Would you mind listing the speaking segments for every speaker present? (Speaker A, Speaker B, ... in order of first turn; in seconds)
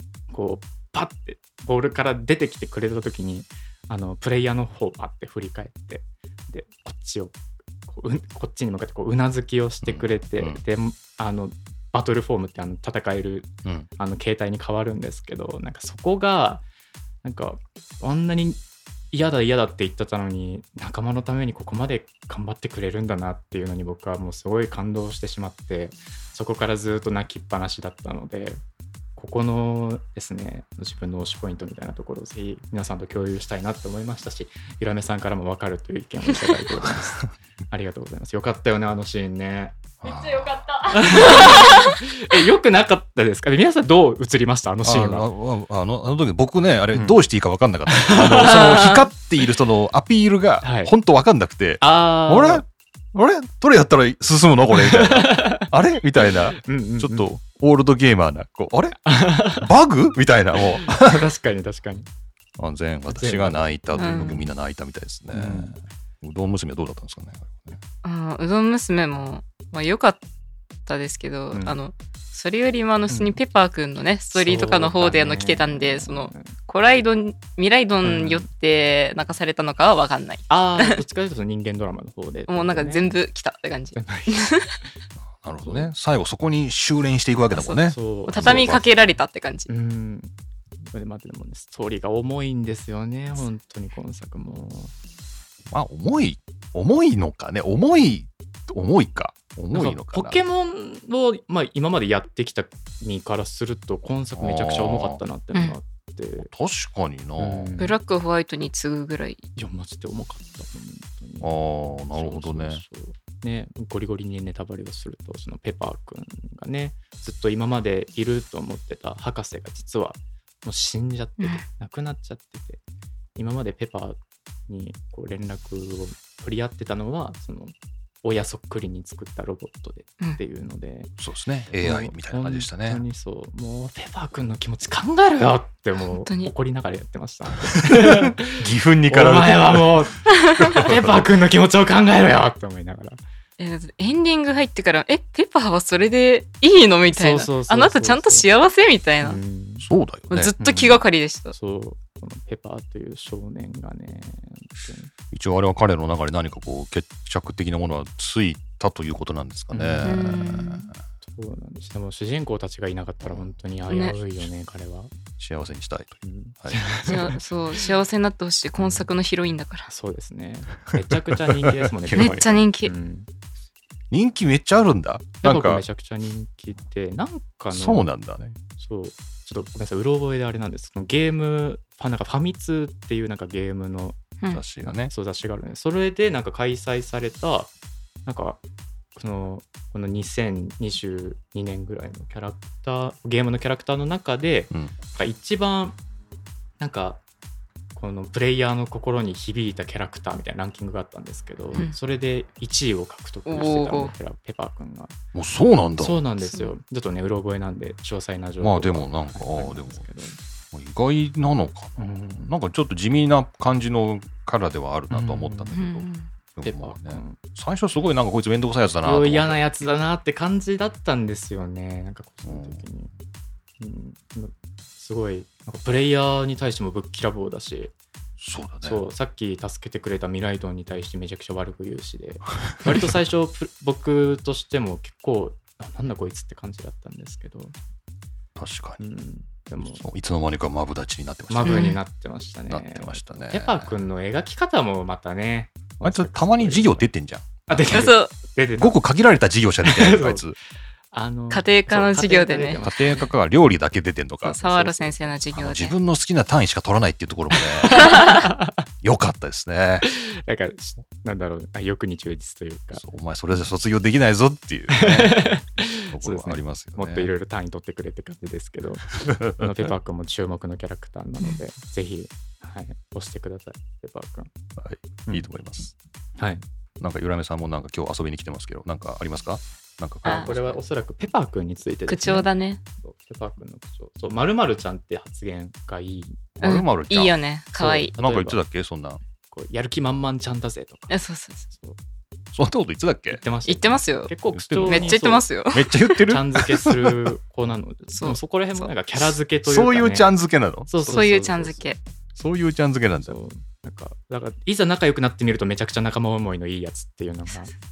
Speaker A: 0.3-7.3, 7.9-16.6, 17.2-18.6, 19.1-28.6, 29.1-39.8, 40.8-45.2, 46.9-47.2, 47.9-49.1, 50.6-50.9, 51.8-52.6, 54.7-55.7, 56.5-57.3, 59.0-59.7, 60.8-62.1, 63.1-63.6, 65.3-65.8, 71.5-71.8, 73.1-73.4, 74.3-76.5, 78.0-78.5, 80.5-83.2, 83.9-84.5, 85.6-85.9, 87.8-88.7, 89.7-90.3, 90.8-94.9, 99.7-106.5, 107.4-108.0, 109.5-111.5, 112.1-122.8, 123.3-131.1, 131.7-140.2, 140.8-143.2, 147.1-148.5, 149.2-149.9, 150.6-155.1, 159.7-160.5, 161.2-165.1, 166.2-167.4, 168.8-169.1, 169.9-173.3, 175.4-178.1, 178.8-184.2, 184.8-187.7, 188.2-188.6, 189.1-196.0, 196.8-197.2, 197.9-205.1, 206.0-210.4, 212.0-212.5, 215.1-215.8, 216.6-217.4, 219.0-223.1, 223.8-227.9, 228.8-237.7, 239.0-240.0, 241.5-247.1, 247.7-249.0, 249.8-250.4, 251.1-253.3, 254.6-255.4, 257.5-258.8, 260.0-263.0, 264.9-274.5, 276.4-276.6, 280.2-286.4, 287.8-288.6, 289.5-291.1, 291.7-292.0, 293.3-295.5, 296.2-300.3, 300.9-301.8, 303.2-307.7
Speaker B: 9.8-10.6, 40.0-40.6, 44.8-61.3, 62.6-67.8, 85.4-89.0, 95.7-100.4, 104.3-105.2, 106.4-107.8, 111.4-112.8, 131.2-133.0, 138.0-140.0, 140.6-141.2, 149.8-150.6, 155.3-160.8, 165.4-166.9, 171.5-172.4, 174.1-175.8, 177.7-178.6, 184.5-185.1, 205.3-206.3, 208.6-210.0, 210.7-219.6, 222.4-222.9, 228.4-229.0, 238.6-239.0, 239.9-242.0, 242.7-243.9, 246.0-247.5, 248.8-250.6, 252.8-254.6, 255.5-258.1, 259.0-260.1, 262.9-265.5, 266.1-267.3, 269.3-269.7, 274.8-275.9, 277.0-280.8, 286.6-287.4, 288.1-289.2, 292.5-293.4, 294.5-295.2, 295.7-297.3, 299.2-301.5, 302.3-303.4
Speaker C: 41.5-41.9, 63.9-64.5, 68.0-70.2, 70.8-81.0, 82.5-84.8, 87.5-89.7, 107.8-109.4, 136.1-136.5, 143.6-149.4, 150.3-151.5, 160.0-160.9, 163.9-164.2, 167.0-169.9, 172.2-172.9, 203.4-204.1, 206.5-206.7, 215.7-216.3, 241.6-242.0, 247.9-248.3, 251.5-252.8, 254.4-255.9, 282.1-282.8, 286.6-288.1, 291.1-291.6, 293.6-294.3, 294.8-296.2, 298.1-298.9, 301.1-302.0